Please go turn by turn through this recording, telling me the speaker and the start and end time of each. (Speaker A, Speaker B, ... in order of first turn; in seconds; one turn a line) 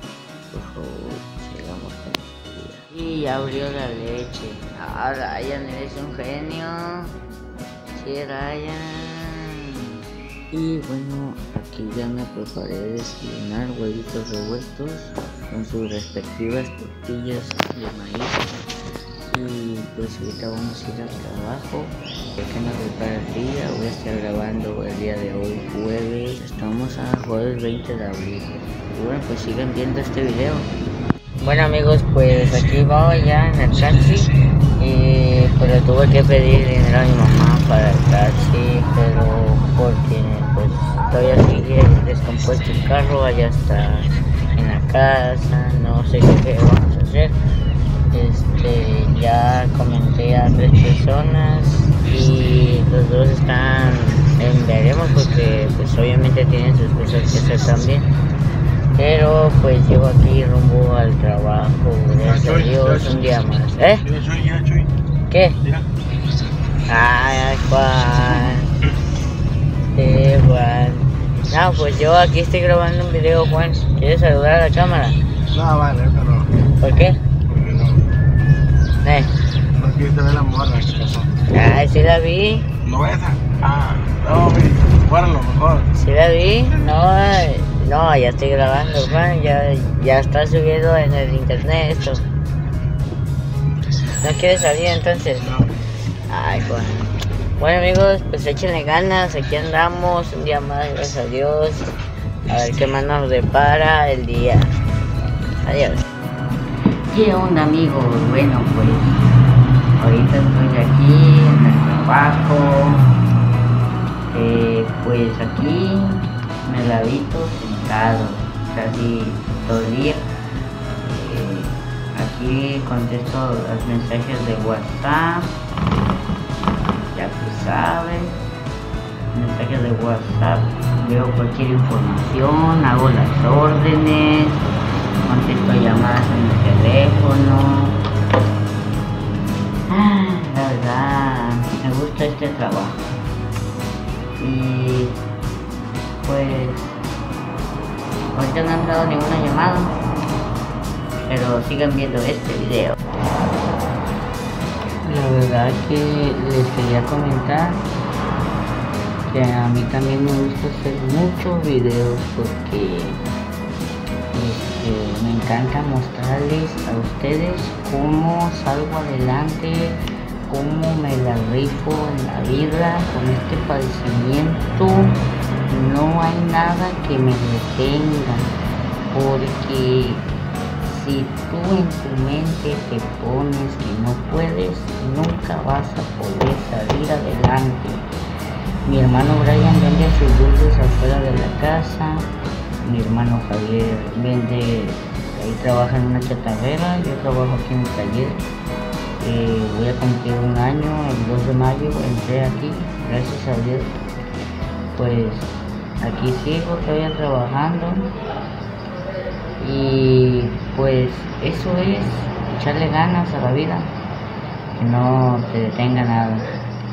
Speaker A: 0.5-7.1
Speaker A: 7.9-9.6
Speaker A: 10.5-18.6
Speaker A: 19.3-30.7
Speaker A: 31.4-47.3
Speaker A: 48.1-58.1
Speaker A: 58.9-64.1
Speaker B: 64.2-64.8
Speaker A: 65.3-65.6
Speaker A: 66.8-68.7
Speaker A: 69.9-75.2
Speaker B: 75.5-76.5
Speaker A: 76.7-77.2
Speaker B: 77.5-78.0
Speaker A: 79.0-79.3
Speaker B: 79.8-81.2
Speaker A: 81.5-82.7
Speaker B: 82.9-85.8
Speaker A: 85.9-92.2
Speaker A: 94.2-95.6
Speaker A: 96.3-101.9
Speaker A: 102.5-104.7
Speaker A: 105.6-106.0
Speaker A: 107.1-109.2
Speaker A: 110.0-113.1
Speaker A: 114.3-120.2
Speaker A: 121.0-125.5
Speaker A: 127.1-128.3
Speaker A: 129.3-134.6
Speaker A: 135.2-137.9
Speaker A: 139.9-143.0
Speaker A: 144.4-145.2
Speaker A: 146.2-146.9
Speaker A: 148.3-149.9
Speaker A: 151.2-153.0
Speaker A: 155.0-157.8
Speaker A: 159.3-163.2
Speaker A: 164.3-175.2
Speaker A: 175.7-178.5
Speaker A: 179.1-180.3
Speaker A: 180.8-188.1
Speaker A: 188.8-192.3
Speaker A: 192.8-198.4
Speaker A: 199.2-203.9
Speaker A: 204.9-208.1
Speaker A: 209.6-213.9
Speaker A: 214.7-216.5